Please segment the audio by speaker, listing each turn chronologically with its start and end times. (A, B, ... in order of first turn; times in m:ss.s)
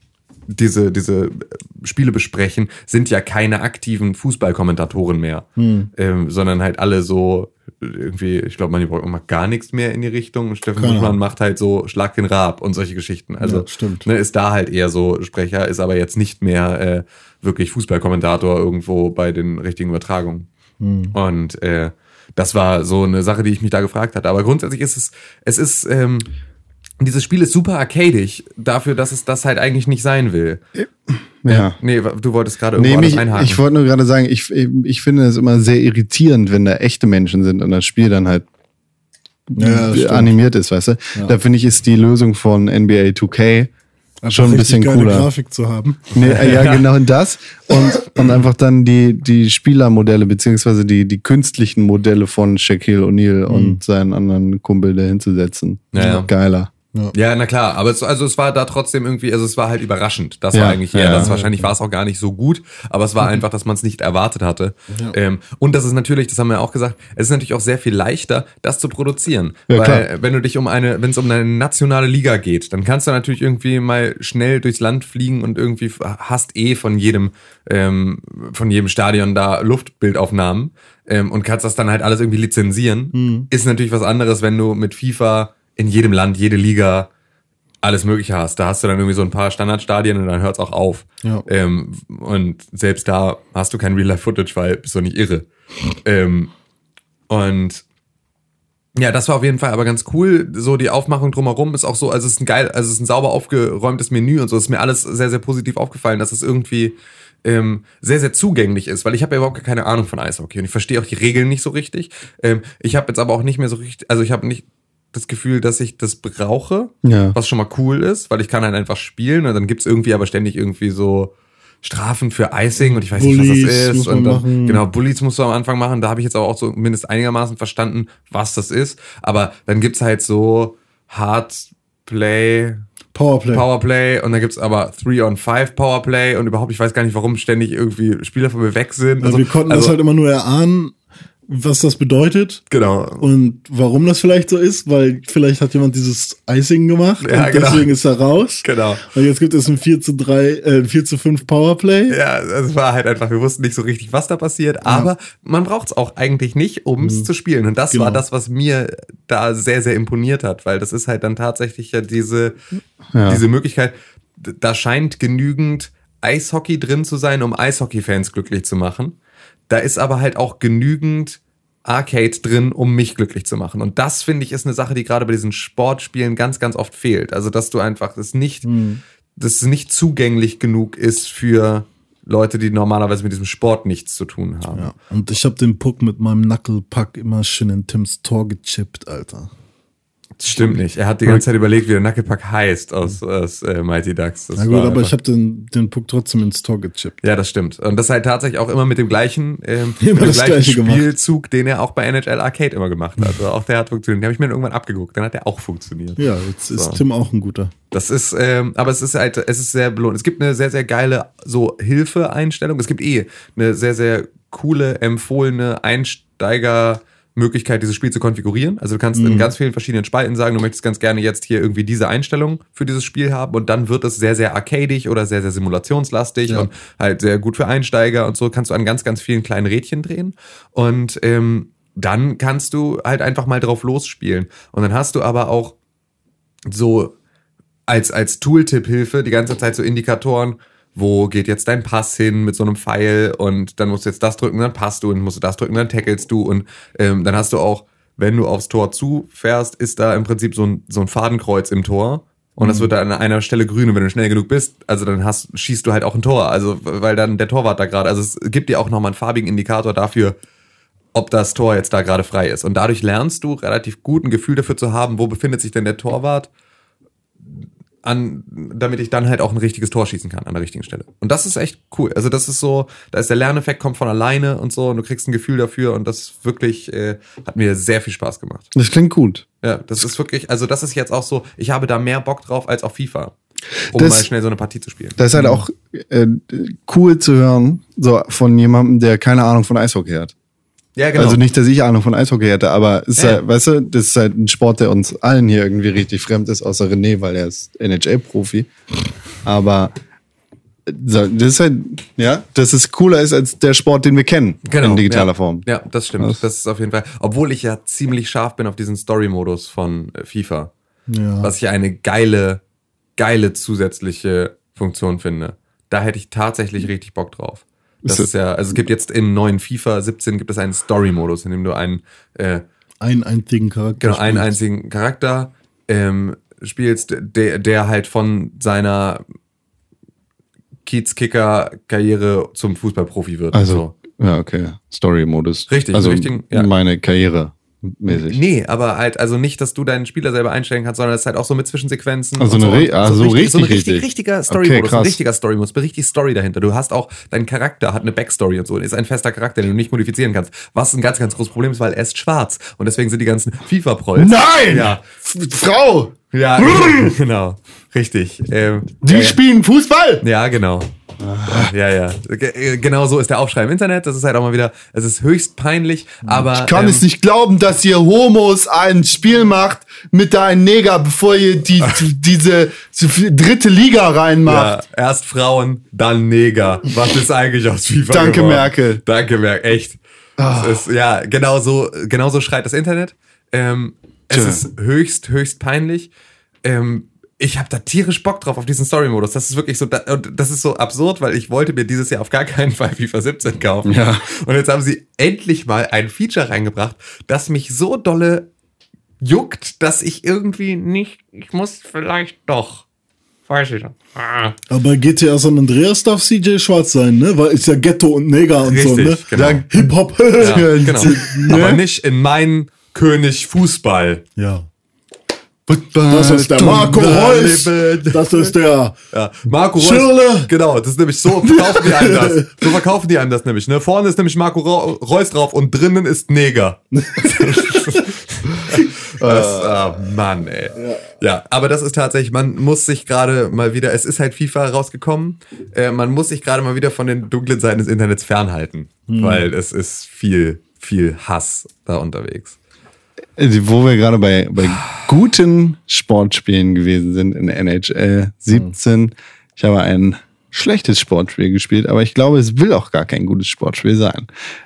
0:00.5-0:20.5 A
0:05.6-0:05.9 B
0:10.8-0:11.2 B
0:13.4-0:14.0 B
0:20.8-0:21.1 B
0:21.1-0:26.3 A
0:27.0-0:30.6 A
0:30.8-0:31.8 C
0:31.5-0:33.6 A
0:32.8-0:38.4 C
0:39.5-0:43.7 C
0:39.6-0:40.4 B
0:44.2-0:46.2 B
0:44.3-0:45.3 C
0:46.2-0:46.8 A
0:46.2-0:56.7 C
0:53.5-0:53.8 B
0:55.9-0:56.3 A
0:57.1-1:27.1 A
1:00.5-1:01.3 C
1:01.1-1:01.7 B
1:09.7-1:10.0 C
1:23.1-1:23.5 B
1:27.8-1:35.5 A
1:36.0-1:36.5 A
1:37.3-1:37.8 A
1:39.0-2:12.8 A
1:57.0-1:57.4 C
2:02.8-2:04.8 B
2:13.1-2:13.7 B
2:13.5-2:20.0 A
2:19.2-2:20.9 B
2:21.5-2:22.6 B
2:22.7-2:23.2 A
2:23.2-2:32.2 B
2:27.2-2:27.9 A
2:28.6-2:29.0 A
2:32.1-2:42.6 A
2:37.0-2:37.3 B
2:37.9-2:38.2 B
2:43.1-2:43.4 C
2:43.2-2:49.2 A
2:49.7-2:58.7 A
2:58.6-2:59.0 B
2:59.4-3:04.9 A
3:04.7-3:09.5 B
3:10.4-3:15.1 A
3:14.6-3:17.2 B
3:17.2-3:27.0 A
3:20.0-3:21.1 B
3:26.2-3:27.7 B
3:27.9-3:55.8 A
3:39.1-3:39.5 B
3:56.7-3:57.1 A
3:57.9-4:20.4 A
4:12.6-4:12.9 B
4:21.1-4:26.5 A
4:28.0-4:38.7 A
4:38.7-4:39.4 C
4:39.6-4:43.3 A
4:43.9-4:45.2 A
4:43.9-4:44.3 C
4:45.2-4:50.3 C
4:45.3-4:45.6 B
4:51.0-4:51.4 A
4:51.2-4:58.7 C
4:59.4-4:59.9 C
5:00.8-5:05.7 C
5:04.6-5:10.7 A
5:11.1-5:11.5 B
5:11.4-5:12.6 A
5:13.2-5:22.6 A
5:23.0-5:24.5 B
5:24.0-5:29.2 A
5:30.8-5:33.9 A
5:33.5-5:38.4 C
5:35.7-5:36.7 A
5:38.1-5:55.0 A
5:42.4-5:45.2 C
5:54.2-5:57.1 C
5:56.3-5:59.4 A
5:59.0-6:00.2 C
6:00.2-6:00.9 A
6:01.2-6:01.7 C
6:01.4-6:07.0 A
6:06.3-6:14.8 C
6:14.4-6:26.1 A
6:18.1-6:19.0 C
6:20.4-6:20.8 C
6:24.3-6:24.6 C
6:26.6-6:38.5 A
6:33.8-6:34.2 C
6:39.2-6:42.8 A
6:43.5-6:44.5 A
6:44.7-6:51.6 B
6:48.6-6:49.6 A
6:49.3-6:51.8 C
6:50.4-6:54.2 A
6:54.4-6:54.7 B
6:55.7-6:57.4 C
6:56.1-6:59.0 B
6:56.7-6:58.5 A
6:59.1-7:22.6 A
6:59.8-7:00.5 B
7:01.7-7:02.6 B
7:07.0-7:07.8 B
7:09.2-7:09.8 C
7:10.7-7:11.0 B
7:19.1-7:19.5 B
7:23.4-7:34.3 C